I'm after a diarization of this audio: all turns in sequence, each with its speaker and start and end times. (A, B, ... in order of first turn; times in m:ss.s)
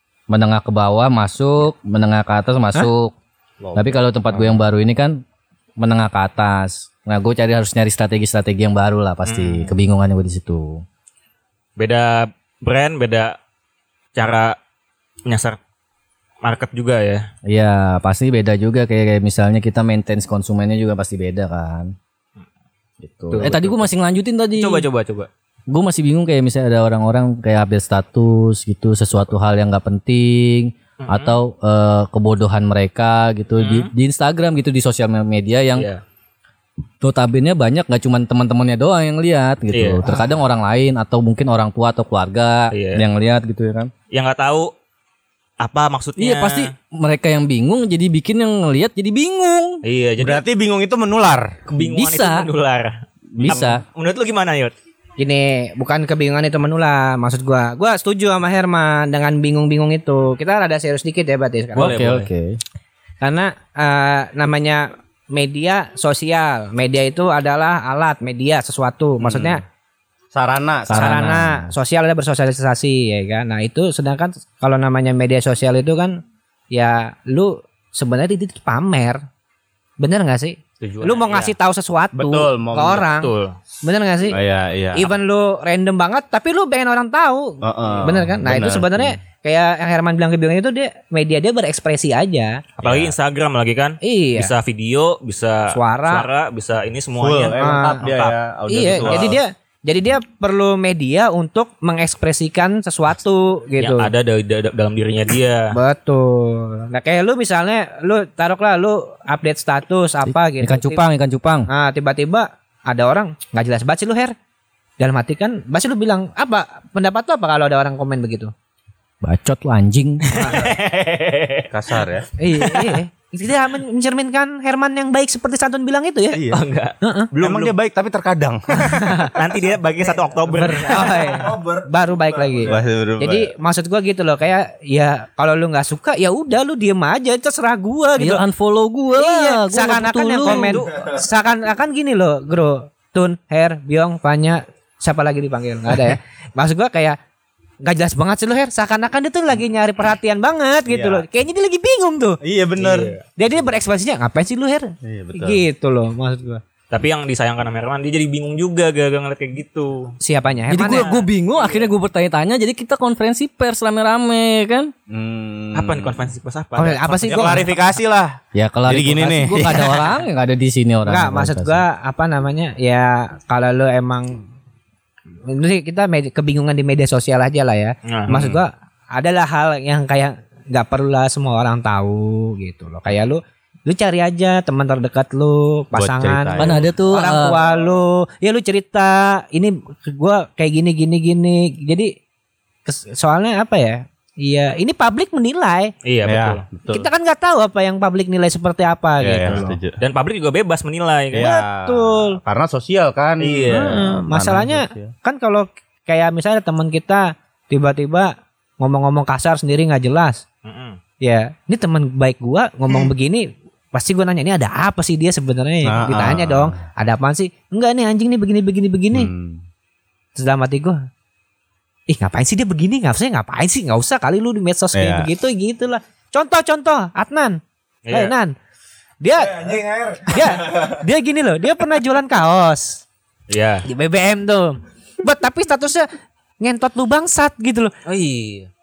0:00.3-0:03.1 A
0:03.6-0:04.6 B
0:03.8-0:05.2 A
0:05.8-0:10.8 A
0:09.2-0:09.7 C
0:11.8-0:13.4 C
0:14.2-0:14.6 C
0:15.3-0:15.6 C
0:16.4-0:17.3 C
0:17.5-0:22.0 A
0:23.0-0:24.9 A
0:23.3-0:23.9 C
0:24.6-0:25.3 C
0:25.7-0:35.9 A
0:31.0-0:31.4 C
0:33.6-0:33.9 C
0:35.8-0:36.0 C
0:37.0-0:43.9 A
0:39.7-0:40.0 C
0:42.7-0:43.0 C
0:44.1-0:44.7 C
0:45.6-0:46.7 C
0:46.2-0:49.8 A
0:49.8-0:50.4 C
0:50.2-0:51.6 B
0:51.7-0:54.7 C
0:51.8-0:52.5 A
0:53.4-0:53.8 B
0:53.4-0:53.8 A
0:55.2-1:02.0 D
1:01.8-1:02.3 C
1:01.8-1:02.6 A
1:03.2-1:09.6 D
1:09.3-1:09.5 C
1:10.3-1:11.3 B
1:10.9-1:11.7 A
1:10.9-1:16.2 D
1:16.7-1:19.2 D
1:20.0-1:23.3 D
1:20.8-1:21.6 C
1:22.1-1:23.0 B
1:23.1-1:23.6 C
1:23.8-1:24.4 D
1:24.3-1:25.1 B
1:24.9-1:32.6 D
1:27.6-1:29.2 B
1:32.8-1:39.4 C
1:32.8-1:33.2 B
1:34.0-1:34.5 D
1:35.7-1:36.3 D
1:37.2-1:39.4 B
1:37.6-1:38.0 D
1:38.7-1:44.1 D
1:43.8-1:45.8 C
1:45.7-1:51.0 D
1:50.3-1:51.7 A
1:51.7-1:54.3 D
1:55.0-1:58.5 D
1:59.2-2:00.2 A
2:00.3-2:01.7 C
2:00.4-2:00.7 D
2:01.7-2:02.3 B
2:02.4-2:06.4 D
2:02.6-2:03.0 C
2:06.3-2:06.6 B
2:06.5-2:07.8 C
2:07.0-2:07.3 D
2:07.4-2:09.1 B
2:08.7-2:09.4 D
2:09.3-2:11.4 C
2:10.0-2:12.8 E
2:10.5-2:18.4 D
2:12.7-2:13.5 B
2:18.2-2:20.8 A
2:19.1-2:27.2 D
2:20.5-2:20.9 C
2:20.9-2:21.2 E
2:27.8-2:32.4 D
2:30.9-2:31.2 B
2:32.4-2:33.1 B
2:32.8-2:33.2 C
2:33.4-2:36.6 D
2:35.0-2:35.6 B
2:36.9-2:40.2 C
2:40.2-2:41.2 D
2:40.7-2:44.9 A
2:40.8-2:41.2 C
2:45.1-2:46.2 B
2:45.7-2:47.7 C
2:46.8-2:47.7 D
2:47.2-2:50.1 B
2:48.5-2:51.8 A
2:51.1-2:54.4 D
2:55.5-3:12.1 D
2:58.0-2:58.6 C
3:06.0-3:06.7 B
3:06.6-3:07.6 A
3:12.9-3:15.9 D
3:16.0-3:16.6 C
3:16.2-3:17.1 B
3:16.9-3:19.8 D
3:19.2-3:20.0 B
3:19.5-3:21.5 C
3:21.3-3:25.1 B
3:21.4-3:22.4 D
3:23.4-3:24.0 C
3:23.7-3:30.4 D
3:30.6-3:31.0 C
3:31.2-3:39.3 D
3:35.8-3:36.7 B
3:39.1-3:39.6 B
3:40.4-3:41.0 D
3:42.1-3:47.6 D
3:44.9-3:45.3 B
3:48.1-3:48.3 C
3:48.1-3:48.6 D
3:49.2-3:49.7 D
3:49.3-3:51.0 E
3:50.3-3:53.0 D
3:53.5-3:53.9 C
3:53.9-3:56.1 D
3:56.6-3:57.9 D
3:58.1-3:58.7 C